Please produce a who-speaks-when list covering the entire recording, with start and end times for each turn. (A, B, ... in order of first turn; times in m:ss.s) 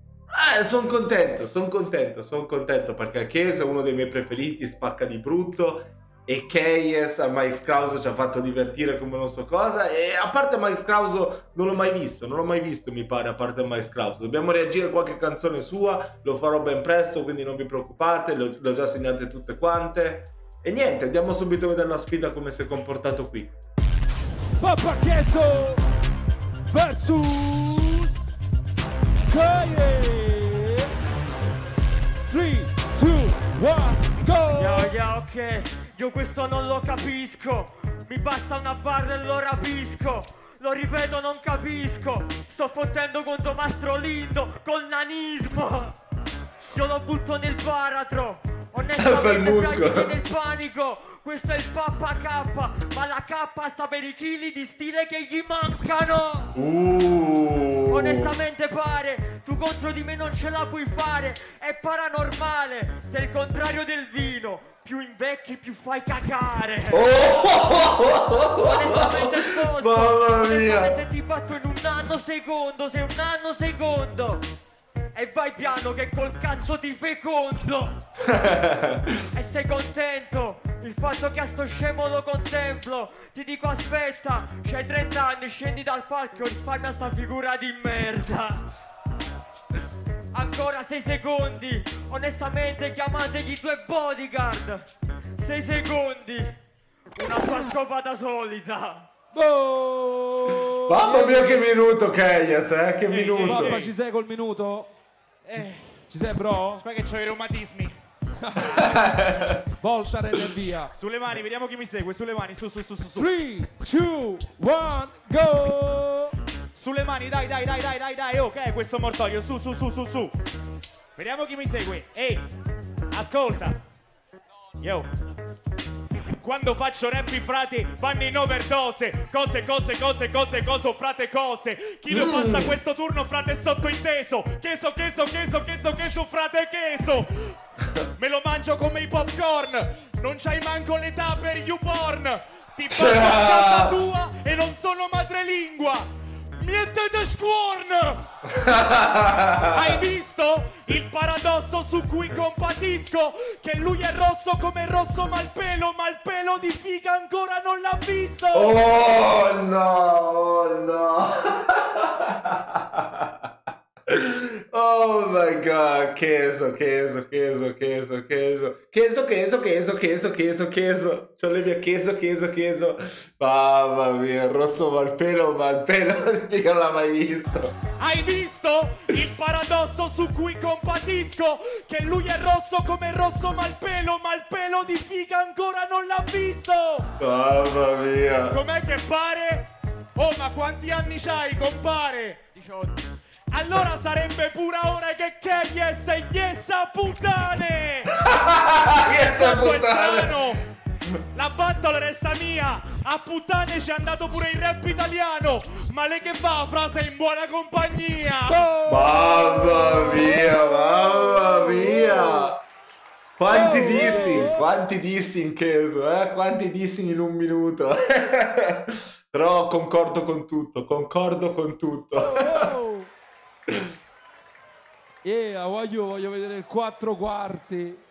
0:00.3-0:23.5 A
0:24.6-0:25.8 B
0:26.7-0:28.1 B
0:29.3-0:30.9 B
0:32.3-0:34.9 B
0:34.5-0:45.9 C
0:46.7-0:56.5 C
0:49.0-0:50.2 A
0:56.5-0:58.3 A
0:57.9-1:07.1 C
1:06.9-1:11.0 A
1:08.4-1:14.4 C
1:15.1-1:18.0 C
1:18.3-1:19.0 A
1:19.3-1:28.6 C
1:30.3-1:34.8 C
1:35.4-1:36.5 C
1:37.2-1:39.1 C
1:39.3-1:41.7 B
1:40.7-1:43.8 A
1:43.1-1:43.9 D
1:43.4-1:44.9 B
1:45.4-1:46.0 D
1:46.1-1:46.8 B
1:46.7-1:48.0 D
1:48.4-1:48.9 B
1:48.8-1:49.6 A
1:49.8-1:50.9 B
1:50.9-1:53.3 D
1:53.2-1:56.3 B
1:56.8-2:00.3 D
2:01.2-2:02.4 D
2:03.1-2:03.8 D
2:04.8-2:05.1 D
2:06.4-2:17.5 D
2:12.1-2:12.8 A
2:18.2-2:28.2 D
2:22.9-2:24.0 A
2:28.5-2:30.0 A
2:29.6-2:38.8 D
2:38.5-2:43.5 A
2:44.1-2:57.7 A
2:58.0-3:07.1 D
3:07.2-3:08.6 A
3:08.5-3:12.4 D
3:12.5-3:13.0 C
3:13.5-3:18.1 D
3:18.2-3:20.5 A
3:19.0-3:20.6 D
3:21.3-3:28.6 D
3:28.4-3:32.5 B
3:28.8-3:32.6 A
3:33.4-3:42.7 A
3:33.5-3:34.6 B
3:42.2-3:43.1 B
3:45.2-3:48.0 B